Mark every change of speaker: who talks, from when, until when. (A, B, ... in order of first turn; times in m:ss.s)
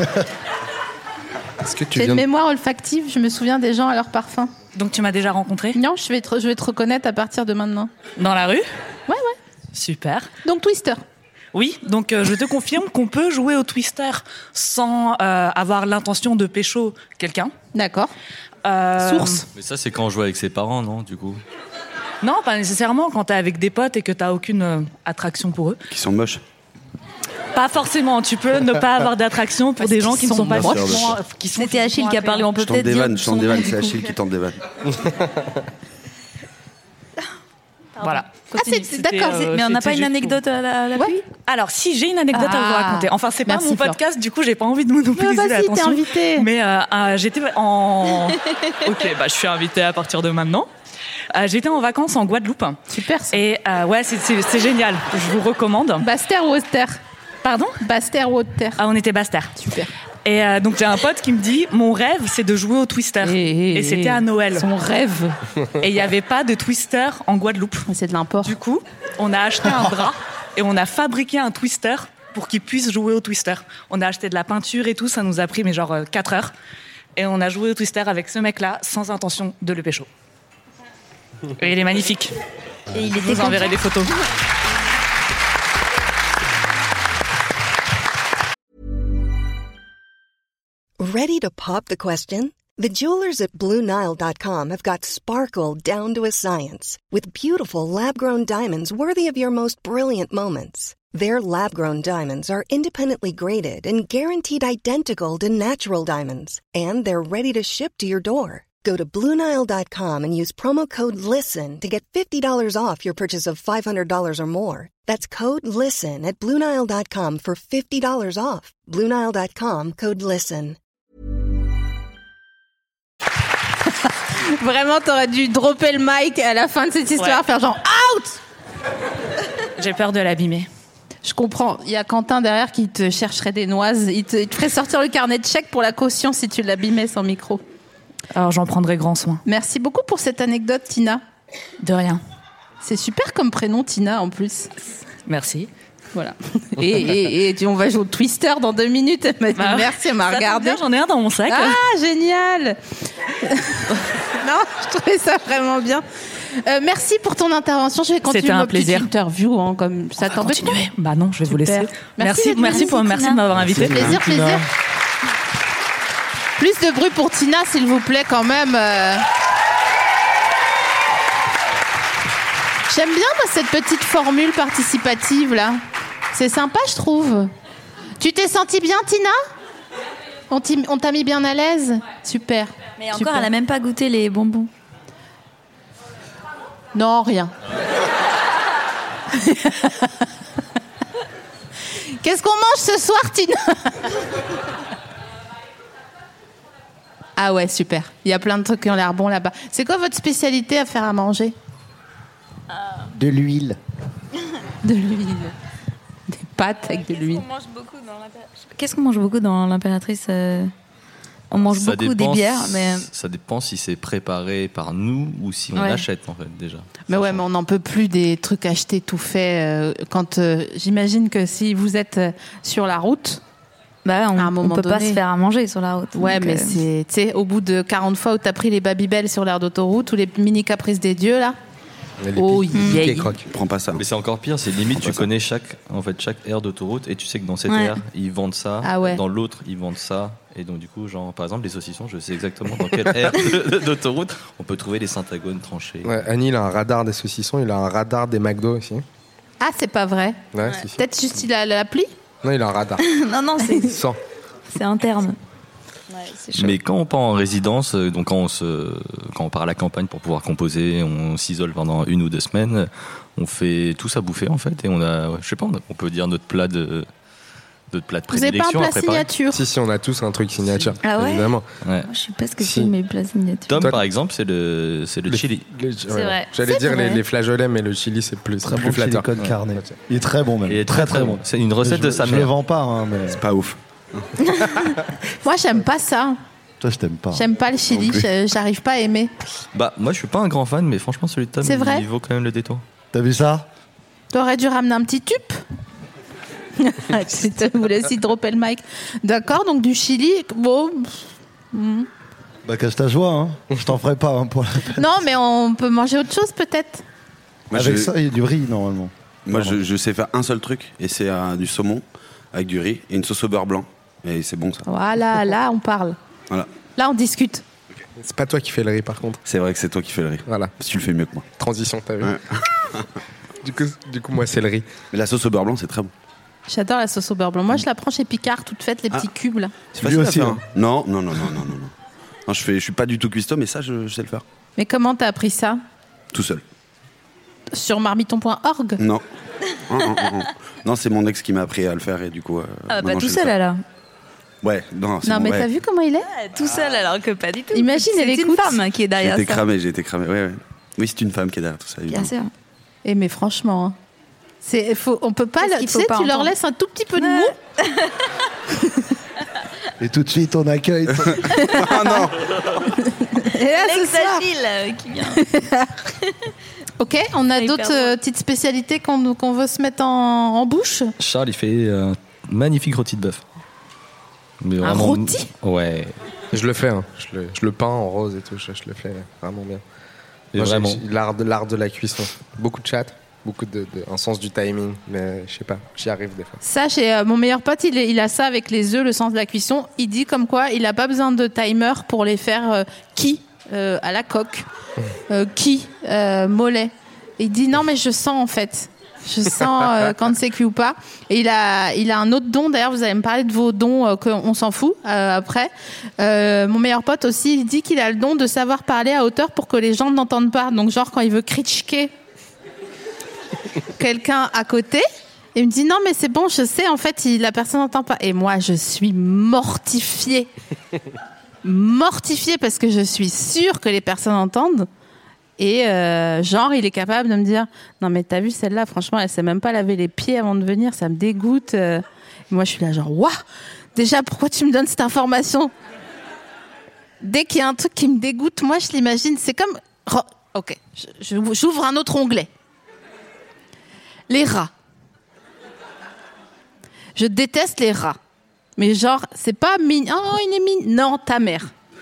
0:01.6-0:02.2 A
0:01.9-0:04.5 B
0:04.7-0:05.8 C
0:05.7-0:07.9 B
0:08.2-0:08.6 C
0:09.1-0:09.4 B
0:09.7-0:10.3 C
0:10.4-0:11.0 B
0:11.5-0:17.5 C
0:17.7-0:18.1 B
0:18.6-0:19.4 C
0:19.0-0:19.4 B
0:19.5-0:21.4 D
0:22.2-0:25.8 C
0:25.9-0:26.4 E
0:27.5-0:32.5 C
0:29.8-0:31.2 B
0:30.5-0:31.1 E
0:31.5-0:34.1 F
0:32.6-0:34.6 E
0:38.0-0:40.4 C
0:38.5-0:39.5 B
0:39.3-0:41.2 F
0:41.4-0:50.7 C
0:42.3-0:44.0 B
0:45.1-0:46.5 B
0:51.3-0:52.8 C
0:52.9-0:53.4 B
0:53.3-0:56.1 C
0:56.0-0:57.0 B
0:57.4-0:57.8 C
0:57.8-0:58.8 B
0:58.8-0:59.5 C
0:59.6-0:59.9 B
1:00.2-1:04.7 C
1:03.2-1:05.4 B
1:05.8-1:07.9 C
1:07.9-1:08.6 B
1:08.4-1:16.5 C
1:17.2-1:20.1 C
1:21.6-1:22.3 C
1:22.9-1:23.8 F
1:23.0-1:24.1 C
1:31.0-2:00.8 G
2:04.4-2:08.4 B
2:09.8-2:10.7 C
2:11.2-2:17.6 B
2:18.3-2:19.4 C
2:19.4-2:21.2 B
2:21.8-2:22.2 C
2:22.8-2:24.7 B
2:25.2-2:25.7 C
2:26.1-2:30.8 B
2:29.6-2:31.8 C
2:31.5-2:32.8 B
2:33.4-2:40.9 B
2:38.3-2:39.1 C
2:40.2-2:44.1 C
2:41.5-2:43.0 B
2:42.6-2:43.4 F
2:43.7-2:44.6 H
2:43.7-2:44.6 B
2:43.8-2:44.1 E
2:46.6-2:49.2 B
2:52.9-2:55.8 B
2:56.3-2:57.5 B
2:58.2-2:59.4 B
3:00.5-3:03.5 B
3:03.0-3:04.7 F
3:06.9-3:07.5 B
3:09.3-3:10.2 B
3:12.2-3:14.2 B
3:17.4-3:21.5 B
3:23.1-3:23.8 H
3:24.8-3:25.5 B
3:26.3-3:27.4 B
3:26.8-3:30.7 F
3:31.5-3:33.1 F
3:31.7-3:37.4 D
3:35.7-3:36.0 F
3:37.1-3:43.4 B
3:44.0-3:46.8 F
3:44.4-3:45.2 B
3:46.1-3:51.6 B
3:52.2-3:53.4 A
3:52.4-3:53.3 B
3:52.7-3:53.0 F
3:53.4-3:54.0 E
3:54.0-4:06.2 D
3:57.7-3:58.0 F
3:58.8-3:59.2 B
4:06.0-4:09.0 A
4:09.6-4:12.1 B
4:10.5-4:11.0 A
4:12.4-4:13.0 A
4:13.0-4:14.0 F
4:13.8-4:14.2 A
4:14.7-4:15.4 F
4:16.1-4:16.8 F
4:16.5-4:27.1 D
4:27.9-4:29.3 D
4:28.3-4:29.6 B
4:29.5-4:31.6 A
4:31.0-4:31.5 F
4:31.8-4:32.1 D
4:32.0-4:33.9 F
4:32.6-4:32.9 A
4:33.7-4:35.6 D
4:35.3-4:39.9 A
4:36.1-4:37.2 F
4:36.6-4:37.1 B
4:38.6-4:43.4 H
4:40.7-4:42.5 D
4:43.3-4:44.2 E
4:45.4-4:46.4 B
4:46.8-4:47.4 H
4:47.3-4:49.3 B
4:48.0-4:48.2 E
4:49.7-4:52.8 D
4:51.6-4:52.0 B
4:53.1-4:53.7 H
4:54.3-4:55.6 B
4:56.8-5:02.1 B
5:02.6-5:05.0 H
5:05.0-5:07.0 B
5:07.7-5:08.1 E
5:07.7-5:09.8 H
5:09.4-5:14.8 E
5:14.9-5:16.2 B
5:17.0-5:17.6 B
5:18.2-5:19.4 A
5:19.4-5:21.4 E
5:20.5-5:20.7 A
5:21.6-5:22.4 A
5:22.2-5:23.1 E
5:23.6-5:24.9 A
5:25.1-5:26.1 E
5:26.7-5:29.7 B
5:29.9-5:31.9 E
5:30.0-5:30.6 H
5:32.5-5:34.4 E
5:34.8-5:35.8 B
5:36.3-5:36.6 E
5:37.7-5:39.0 B
5:39.0-5:39.2 E
5:39.9-5:43.5 E
5:42.9-5:43.8 F
5:44.6-5:45.7 E
5:45.2-5:46.3 B
5:46.3-5:49.6 F
5:47.7-5:48.8 B
5:49.2-5:52.3 E
5:52.1-5:52.5 F
5:53.0-5:54.0 B
5:54.6-5:57.5 B
5:55.6-5:56.5 F
5:57.2-5:58.2 F
5:58.8-5:59.1 B
6:00.0-6:01.6 H
6:01.1-6:02.7 E
6:01.5-6:02.3 B
6:02.8-6:04.5 B
6:03.7-6:05.5 F
6:05.3-6:06.0 B
6:07.0-6:11.1 B
6:07.6-6:08.2 F
6:11.2-6:13.4 D
6:14.6-6:16.2 D
6:14.8-6:15.5 B
6:16.5-6:19.8 A
6:20.5-6:21.0 D
6:20.5-6:26.6 A
6:26.6-6:34.6 B
6:35.3-6:52.1 B
6:54.0-7:00.5 B
7:01.6-7:04.9 B
7:05.6-7:13.4 B
7:13.9-7:15.7 B
7:17.2-7:22.5 B
7:24.3-7:24.7 B
7:27.2-7:28.2 B
7:28.8-7:31.7 B